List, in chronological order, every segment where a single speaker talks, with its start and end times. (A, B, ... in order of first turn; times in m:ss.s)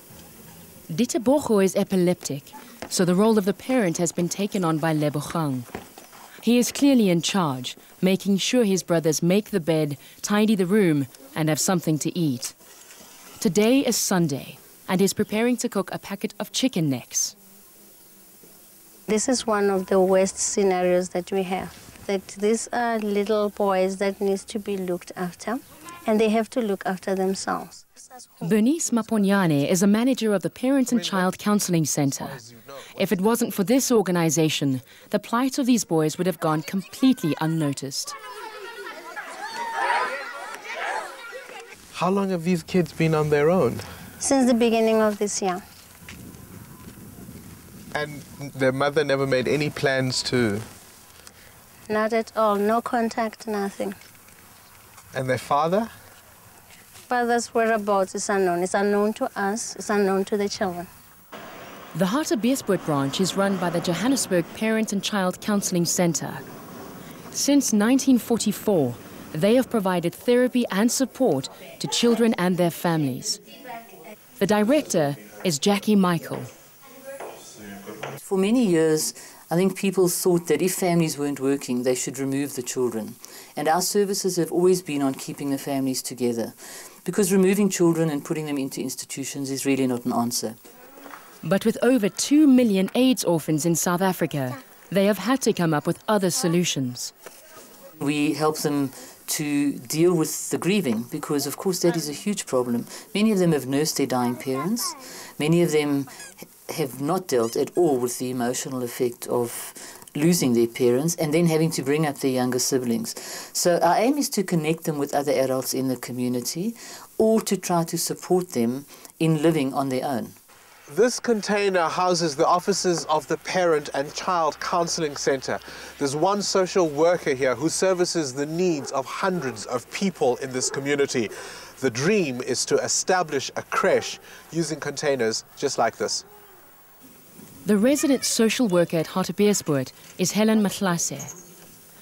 0:00.9-0:05.7 A
0:06.4-0:12.6 A
0:13.4-0:17.4 A
0:19.1-0:28.5 B
0:28.4-0:32.4 A
0:33.0-0:38.2 A
0:41.9-0:43.8 C
0:44.2-0:45.6 B
0:47.9-0:50.6 C
0:51.9-0:54.0 B
0:55.1-0:55.9 C
0:57.1-1:00.9 B
1:01.9-1:06.4 A
1:07.3-1:13.4 A
1:14.4-1:16.5 A
1:18.2-1:30.6 D
1:31.4-1:37.1 A
1:38.0-2:00.4 D
2:00.9-2:16.2 C
2:17.6-2:21.3 A